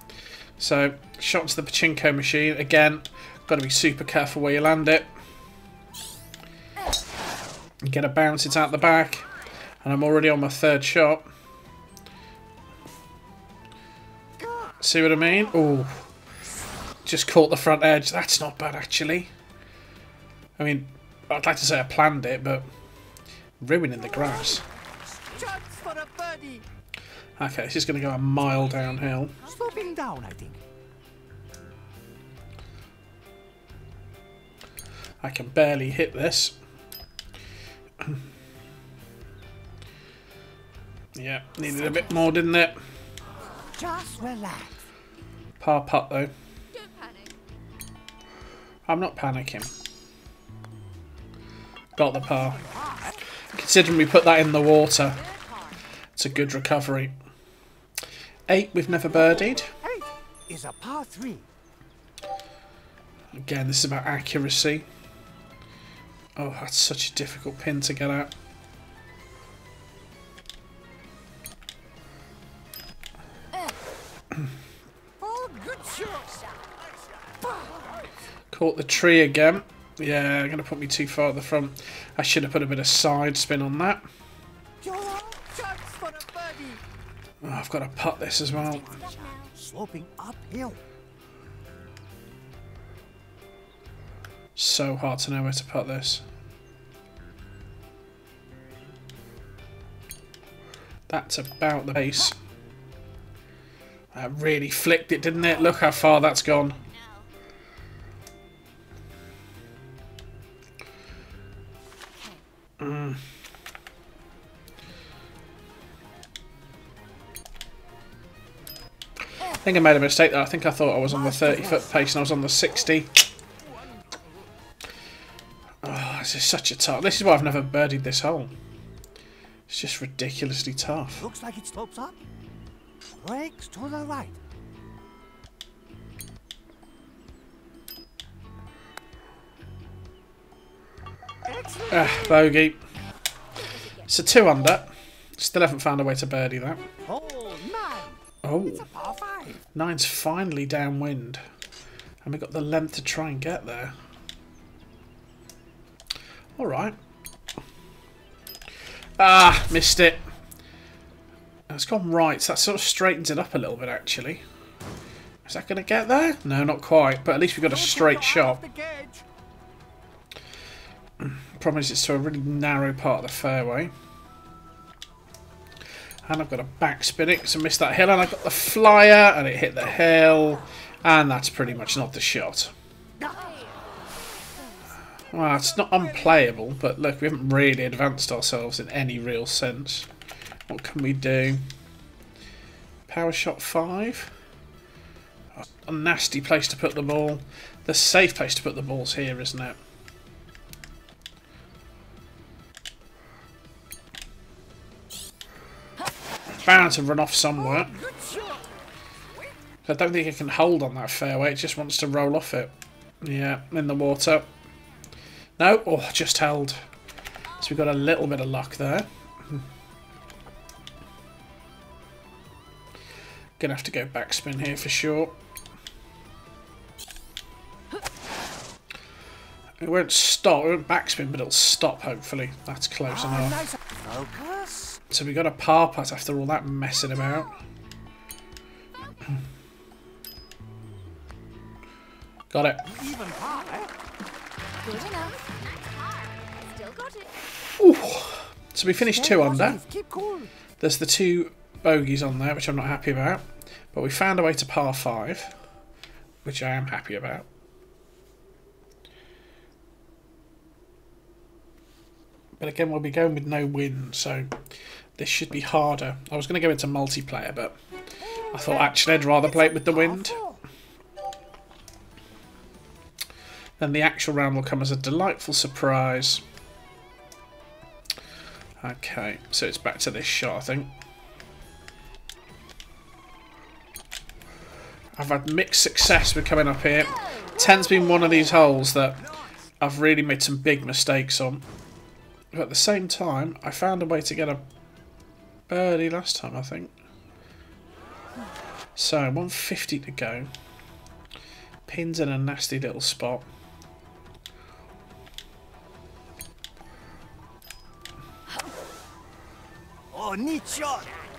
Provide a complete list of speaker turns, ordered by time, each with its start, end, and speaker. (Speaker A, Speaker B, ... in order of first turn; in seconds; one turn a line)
Speaker A: 0.6-5.1
Speaker A: 7.8-9.3
Speaker B: 8.8-9.3
Speaker A: 9.8-11.3
Speaker C: 14.4-14.8
Speaker A: 14.8-16.1
Speaker A: 17.0-19.3
Speaker A: 20.6-22.6
Speaker A: 23.6-24.6
Speaker C: 25.3-26.6
Speaker A: 27.4-29.4
Speaker B: 28.5-29.9
Speaker C: 29.4-30.6
Speaker A: 35.2-36.6
Speaker A: 41.1-42.8
Speaker B: 41.9-42.2
Speaker C: 43.7-44.8
Speaker A: 45.6-46.3
Speaker B: 46.7-47.3
Speaker A: 48.9-49.7
Speaker A: 52.0-52.6
Speaker C: 52.3-53.2
Speaker A: 53.5-55.2
Speaker B: 55.2-55.8
Speaker A: 56.2-57.1
Speaker A: 58.5-59.7
Speaker C: 59.8-61.5
Speaker A: 63.3-64.8
Speaker A: 66.3-68.3
Speaker C: 75.2-76.4
Speaker C: 77.4-77.8
Speaker A: 78.5-84.0
Speaker C: 84.8-86.8
Speaker A: 87.4-88.9
Speaker B: 88.7-89.5
Speaker C: 88.7-90.8
Speaker A: 94.5-96.2
Speaker A: 101.1-102.3
Speaker A: 104.1-106.8
Speaker B: 106.8-107.2
Speaker A: 112.8-113.2
Speaker A: 119.5-123.3
Speaker C: 121.1-122.0
Speaker A: 125.8-128.5
Speaker A: 129.7-131.2
Speaker C: 131.2-132.2
Speaker C: 133.2-134.4
Speaker C: 141.4-142.5
Speaker A: 141.9-142.8
Speaker B: 143.6-144.2
Speaker A: 144.1-146.8
Speaker C: 147.0-149.6
Speaker A: 148.4-148.9
Speaker A: 149.7-151.4
Speaker A: 152.2-153.9
Speaker A: 156.6-157.0
Speaker A: 159.2-160.2
Speaker A: 161.7-164.4
Speaker A: 165.4-168.6
Speaker C: 167.6-169.2
Speaker A: 171.2-173.9
Speaker A: 176.2-182.7
Speaker B: 183.3-184.8
Speaker A: 185.3-190.1
Speaker A: 190.7-191.6
Speaker A: 193.1-194.3
Speaker A: 195.5-199.8
Speaker A: 206.6-208.0
Speaker C: 207.6-208.7
Speaker A: 209.8-214.5
Speaker A: 215.6-216.8
Speaker A: 217.6-219.6
Speaker A: 223.6-225.3
Speaker A: 229.8-233.6
Speaker C: 233.1-235.0
Speaker A: 235.1-237.6
Speaker B: 239.0-239.3
Speaker A: 242.5-242.9
Speaker C: 242.8-243.9
Speaker B: 244.8-247.3
Speaker A: 247.8-249.8
Speaker C: 249.0-250.5
Speaker A: 250.8-255.5
Speaker A: 256.4-257.5
Speaker A: 262.6-264.6
Speaker A: 265.2-267.7
Speaker C: 268.2-270.6
Speaker A: 268.5-270.4
Speaker A: 273.8-276.4
Speaker A: 278.8-280.9
Speaker A: 285.1-289.2
Speaker A: 289.8-291.6
Speaker A: 292.5-294.6
Speaker A: 295.7-296.9
Speaker A: 298.9-300.5
Speaker A: 301.9-303.4
Speaker C: 310.1-311.1